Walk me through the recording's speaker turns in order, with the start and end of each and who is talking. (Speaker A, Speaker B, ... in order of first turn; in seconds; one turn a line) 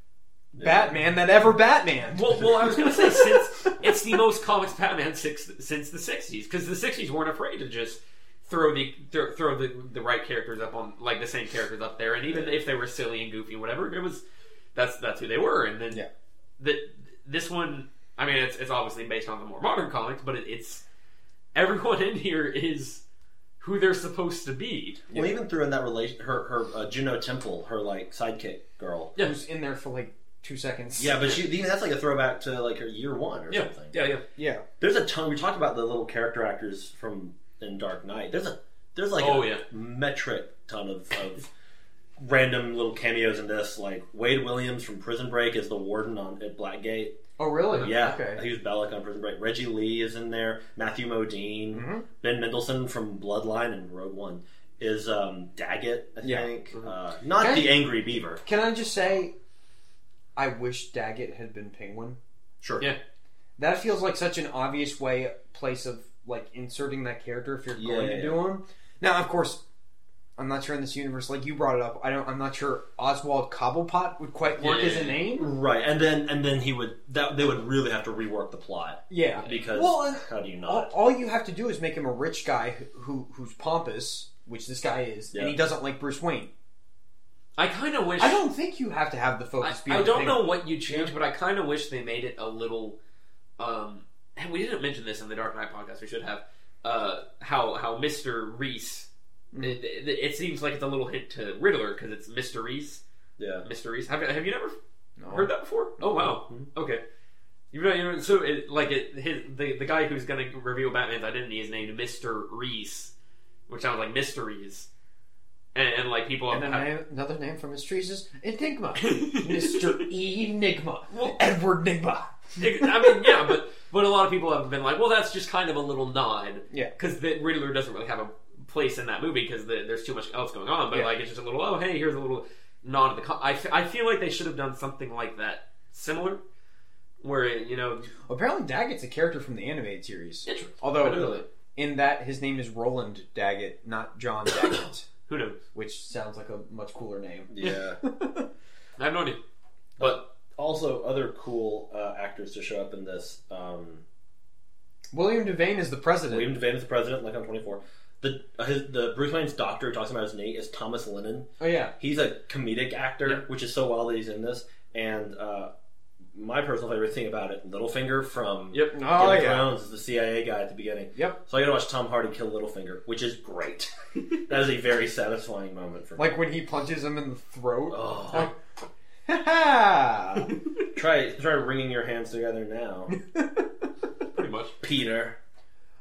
Speaker A: 0.5-1.0
Speaker B: 0.6-4.0
Speaker C: 2.1-14.2
Speaker A: 12.3-12.6
Speaker C: 14.8-16.0
Speaker C: 16.6-20.9
Speaker C: 21.6-23.0
Speaker C: 23.6-25.1
Speaker A: 25.1-29.1
Speaker B: 29.2-31.3
Speaker A: 31.0-34.0
Speaker C: 33.5-34.2
Speaker B: 34.4-34.6
Speaker A: 34.8-41.5
Speaker C: 39.2-39.6
Speaker A: 42.2-47.2
Speaker B: 47.4-48.5
Speaker A: 47.7-58.4
Speaker B: 51.7-52.1
Speaker B: 56.2-56.5
Speaker B: 57.4-57.8
Speaker B: 58.4-59.4
Speaker B: 60.4-62.2
Speaker A: 62.6-62.9
Speaker B: 63.6-69.6
Speaker A: 67.8-68.4
Speaker B: 70.4-75.5
Speaker C: 74.6-75.2
Speaker A: 75.2-80.9
Speaker B: 79.1-86.5
Speaker C: 87.6-88.4
Speaker B: 88.2-91.1
Speaker C: 89.6-93.0
Speaker C: 93.6-103.0
Speaker B: 99.5-99.8
Speaker A: 103.4-103.7
Speaker C: 103.6-104.8
Speaker B: 105.2-105.5
Speaker C: 105.3-107.0
Speaker A: 106.2-106.7
Speaker C: 107.7-113.1
Speaker C: 113.7-114.9
Speaker C: 115.8-116.9
Speaker B: 116.5-123.6
Speaker C: 119.0-120.1
Speaker C: 121.1-121.4
Speaker C: 122.6-136.4
Speaker C: 137.2-138.1
Speaker B: 138.3-145.1
Speaker C: 140.5-141.4
Speaker A: 141.1-141.4
Speaker C: 145.3-145.6
Speaker B: 145.7-148.5
Speaker A: 147.5-148.0
Speaker C: 149.0-149.4
Speaker A: 150.0-154.0
Speaker B: 155.1-156.5
Speaker A: 156.3-165.7
Speaker B: 161.6-161.9
Speaker A: 166.3-176.4
Speaker B: 168.8-169.7
Speaker B: 176.2-178.5
Speaker A: 177.9-178.5
Speaker B: 179.3-180.5
Speaker A: 180.9-183.2
Speaker B: 183.1-183.8
Speaker C: 184.3-184.7
Speaker A: 184.8-185.4